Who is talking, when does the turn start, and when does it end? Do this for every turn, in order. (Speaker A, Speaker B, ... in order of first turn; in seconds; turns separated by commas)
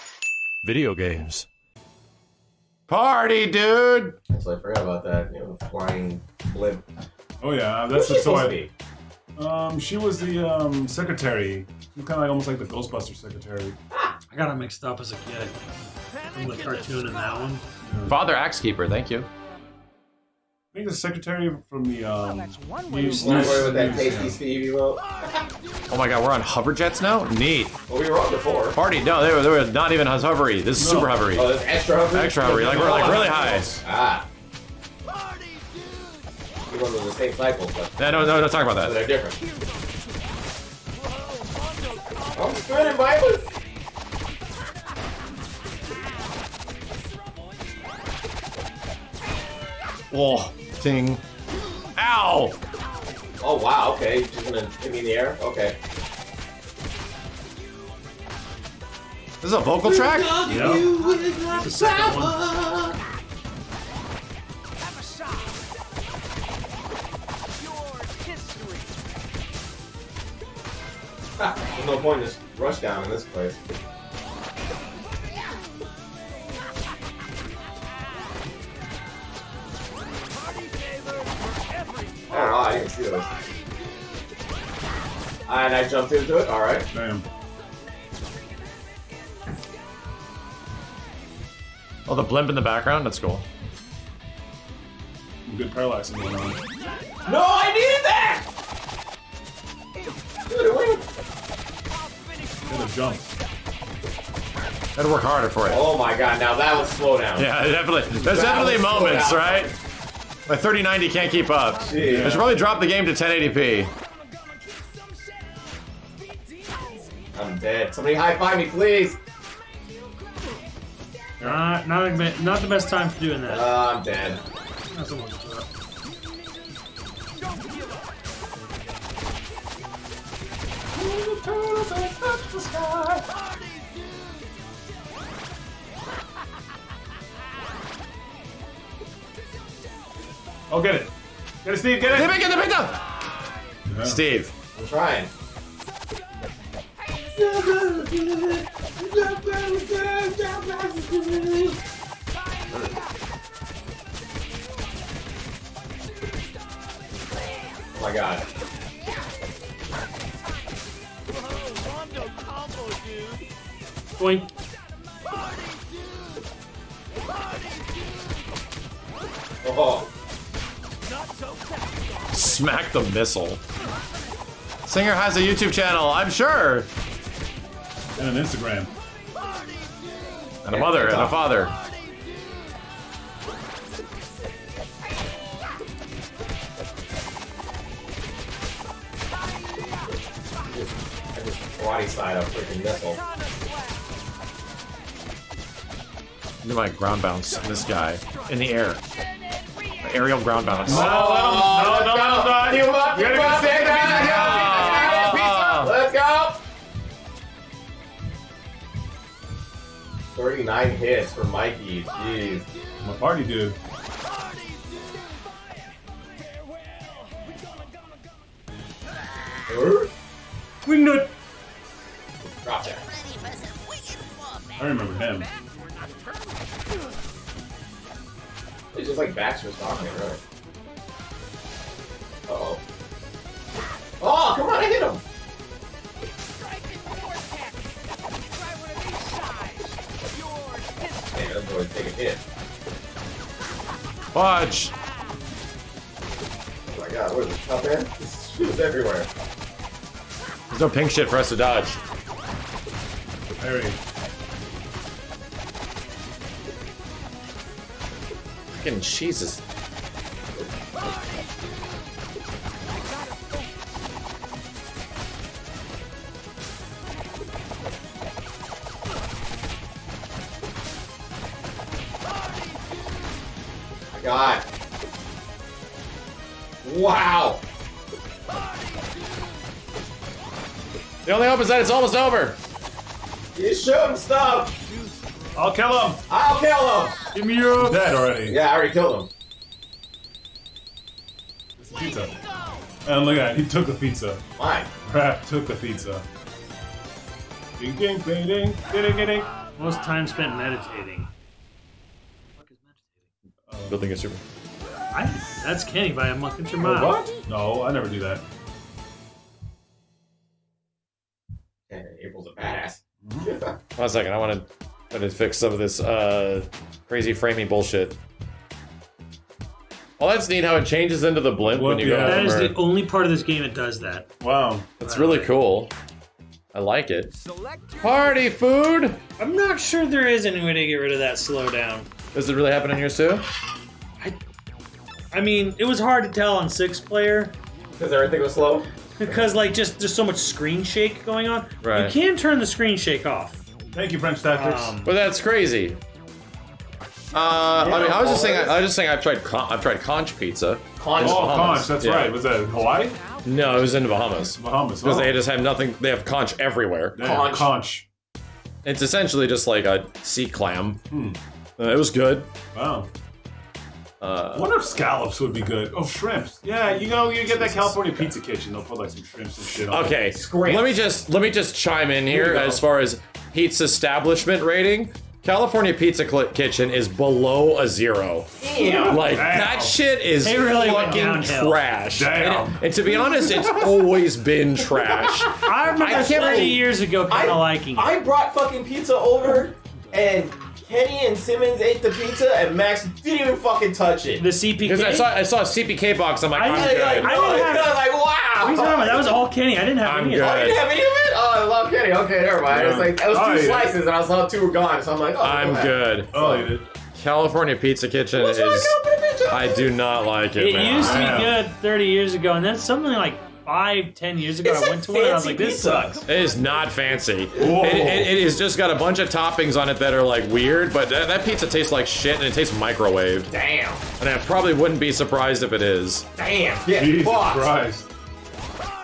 Speaker A: 0.6-1.5, Speaker A: 2.9-4.2, Speaker B: 4.3-6.9, Speaker C: 7.4-8.6, Speaker B: 7.9-8.7, Speaker C: 9.4-13.8, Speaker D: 14.3-15.6, Speaker D: 16.3-17.6, Speaker C: 17.8-18.2, Speaker A: 18.1-19.3, Speaker C: 20.7-24.4, Speaker D: 22.9-24.0, Speaker B: 23.2-25.5, Speaker A: 25.9-27.7, Speaker B: 27.9-28.8, Speaker A: 28.7-31.5, Speaker C: 30.8-31.3, Speaker B: 31.4-33.1, Speaker A: 32.1-33.7, Speaker C: 32.3-33.8, Speaker B: 33.8-34.3, Speaker B: 36.7-39.4, Speaker A: 38.0-39.0, Speaker B: 42.3-43.5, Speaker A: 50.1-51.2, Speaker A: 52.0-52.6, Speaker B: 53.4-55.8, Speaker A: 59.4-60.4, Speaker B: 59.8-63.0, Speaker C: 60.4-60.9, Speaker D: 61.5-62.4, Speaker B: 71.4-73.6, Speaker B: 82.3-83.3, Speaker B: 85.5-86.9, Speaker C: 86.9-87.3, Speaker A: 92.1-93.4, Speaker C: 95.5-96.6, Speaker B: 97.2-98.5, Speaker B: 100.5-101.1, Speaker C: 102.7-103.3, Speaker A: 105.0-105.9, Speaker B: 105.7-107.5, Speaker A: 107.4-109.7, Speaker B: 108.2-109.7, Speaker A: 110.5-113.9, Speaker B: 111.8-112.3, Speaker C: 111.9-112.6, Speaker B: 117.3-119.2, Speaker D: 121.4-123.7, Speaker B: 123.5-124.4, Speaker D: 124.9-125.7, Speaker C: 130.9-133.2, Speaker C: 140.7-141.1, Speaker C: 141.6-142.5, Speaker A: 142.1-143.0, Speaker C: 143.9-144.2, Speaker A: 144.0-144.5, Speaker B: 144.7-145.3, Speaker B: 147.2-151.8, Speaker B: 152.7-153.0, Speaker B: 157.9-158.5, Speaker D: 164.2-164.5, Speaker B: 169.6-170.1, Speaker A: 172.3-173.6, Speaker A: 174.9-176.9, Speaker C: 178.2-178.9, Speaker A: 180.6-181.7, Speaker B: 180.7-181.4, Speaker B: 190.7-193.2, Speaker A: 196.6-199.0, Speaker A: 200.0-201.2, Speaker C: 200.9-205.0, Speaker B: 200.9-206.6, Speaker A: 204.0-205.9, Speaker B: 210.3-212.7, Speaker C: 213.0-213.8, Speaker B: 219.7-220.1, Speaker D: 220.8-221.3, Speaker B: 222.5-223.2, Speaker C: 224.8-225.5, Speaker B: 228.9-230.4, Speaker B: 232.5-232.8, Speaker B: 234.2-235.2, Speaker B: 241.3-242.4, Speaker A: 244.3-244.9, Speaker B: 246.9-249.3, Speaker A: 250.7-252.0, Speaker C: 253.6-254.0, Speaker A: 258.8-259.6, Speaker B: 274.1-274.7, Speaker B: 276.8-277.6, Speaker A: 281.2-282.6, Speaker B: 283.6-284.8, Speaker C: 285.5-286.2, Speaker B: 286.3-287.2, Speaker D: 287.3-288.2, Speaker C: 287.8-288.6, Speaker B: 288.5-289.3, Speaker C: 291.8-292.4, Speaker C: 293.1-294.4, Speaker B: 294.6-294.9, Speaker C: 295.0-296.2, Speaker C: 297.8-299.5, Speaker D: 299.8-301.3, Speaker D: 302.6-303.0, Speaker C: 303.7-304.0, Speaker A: 303.9-304.4, Speaker D: 305.1-307.2, Speaker C: 306.8-308.4, Speaker B: 311.9-313.8, Speaker C: 313.2-313.5, Speaker A: 314.0-318.2, Speaker A: 320.2-322.7, Speaker C: 321.6-322.6, Speaker D: 322.2-324.3, Speaker C: 324.4-324.9, Speaker A: 325.0-325.9, Speaker D: 325.0-325.6, Speaker A: 326.7-327.3, Speaker A: 328.0-329.2, Speaker D: 329.4-332.1, Speaker A: 332.3-333.4, Speaker D: 335.3-337.6, Speaker B: 338.0-338.9, Speaker D: 339.2-343.6, Speaker A: 341.8-342.1, Speaker C: 343.9-344.9, Speaker D: 344.5-345.1, Speaker A: 345.0-346.0, Speaker A: 347.3-352.3, Speaker B: 347.8-348.8, Speaker B: 351.0-351.7, Speaker C: 351.2-353.2, Speaker A: 353.4-357.2, Speaker C: 354.6-355.4, Speaker C: 357.1-358.1, Speaker B: 357.2-357.7, Speaker A: 358.9-361.0, Speaker C: 361.1-361.4, Speaker A: 361.8-362.5, Speaker C: 362.7-363.1, Speaker A: 364.2-364.7, Speaker C: 364.5-370.2, Speaker A: 367.4-368.3, Speaker A: 369.9-386.8, Speaker B: 370.2-371.1, Speaker C: 372.3-372.8, Speaker B: 378.6-379.3, Speaker C: 378.8-380.0, Speaker D: 380.4-381.8, Speaker C: 380.9-381.2, Speaker C: 382.1-384.1, Speaker D: 385.6-388.1, Speaker B: 386.0-394.5, Speaker D: 394.4-395.3, Speaker A: 394.8-397.4, Speaker D: 396.5-398.0, Speaker B: 396.7-399.5, Speaker D: 398.6-400.6, Speaker A: 400.0-400.8, Speaker B: 400.4-406.7, Speaker C: 402.6-404.0, Speaker A: 405.4-406.4, Speaker C: 406.3-406.9, Speaker A: 407.1-409.0, Speaker B: 408.3-409.9, Speaker A: 409.5-411.3, Speaker D: 410.6-416.2, Speaker C: 411.0-411.6, Speaker B: 414.6-416.2, Speaker A: 416.3-423.5, Speaker C: 417.6-418.4, Speaker B: 423.5-424.1, Speaker A: 424.2-426.3, Speaker B: 426.4-427.7, Speaker C: 426.9-428.1